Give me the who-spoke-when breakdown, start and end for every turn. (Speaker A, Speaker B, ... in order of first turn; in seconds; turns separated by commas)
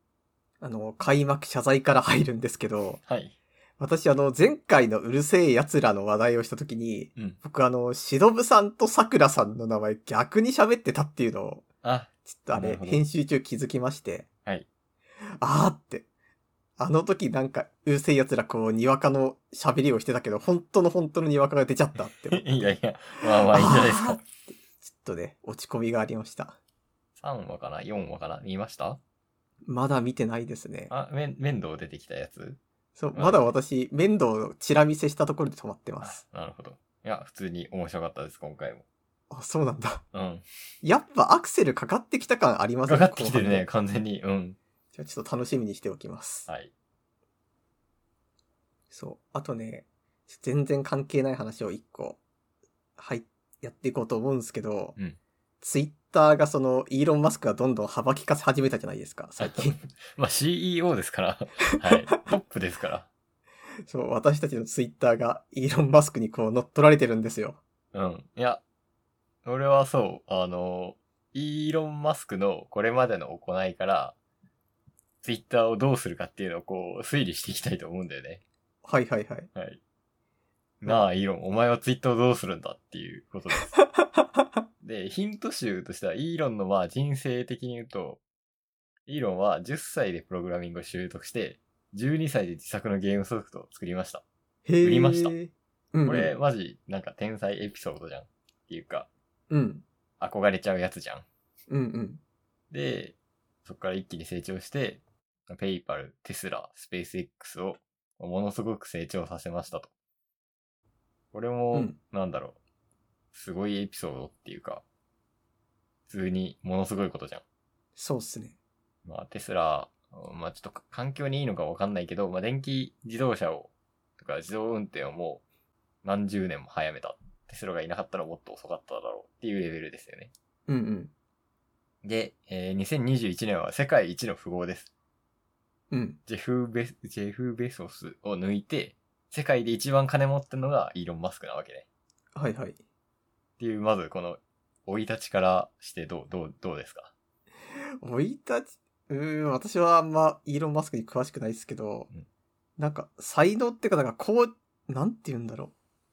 Speaker A: 0.6-3.0, Speaker B: 3.0-3.3, Speaker A: 3.8-11.6, Speaker B: 11.8-13.0, Speaker A: 12.3-14.3, Speaker A: 15.4-16.1, Speaker A: 16.8-24.2, Speaker B: 22.3-24.2, Speaker A: 24.8-26.6, Speaker B: 27.2-29.0, Speaker A: 29.6-30.9, Speaker B: 30.9-32.6, Speaker A: 33.0-36.2, Speaker B: 33.1-33.5, Speaker B: 36.0-38.8, Speaker A: 39.3-40.0, Speaker B: 40.1-40.5, Speaker A: 40.8-43.7, Speaker B: 42.9-44.6, Speaker A: 44.9-46.5, Speaker B: 46.5-46.7, Speaker A: 48.9-52.2, Speaker A: 53.0-55.0, Speaker A: 55.6-59.8, Speaker B: 59.4-63.1, Speaker A: 61.8-62.2, Speaker A: 63.9-67.6, Speaker B: 67.9-68.6, Speaker B: 69.4-74.2, Speaker B: 75.2-78.4, Speaker A: 78.8-79.5, Speaker B: 80.8-83.7, Speaker B: 84.8-88.2, Speaker B: 89.1-94.2, Speaker A: 94.7-96.3, Speaker B: 94.8-95.3, Speaker B: 96.0-99.1, Speaker A: 99.5-99.8, Speaker B: 100.2-101.2, Speaker A: 101.7-102.2, Speaker B: 102.7-109.9, Speaker B: 111.3-112.6, Speaker B: 113.3-114.8, Speaker B: 116.1-117.4, Speaker A: 118.0-118.5, Speaker B: 119.0-125.4, Speaker B: 126.0-130.3, Speaker A: 130.7-131.1, Speaker B: 132.0-134.9, Speaker A: 135.9-136.2, Speaker B: 136.3-141.8, Speaker A: 142.3-142.8, Speaker B: 143.6-147.1, Speaker A: 148.0-152.1, Speaker A: 152.8-155.7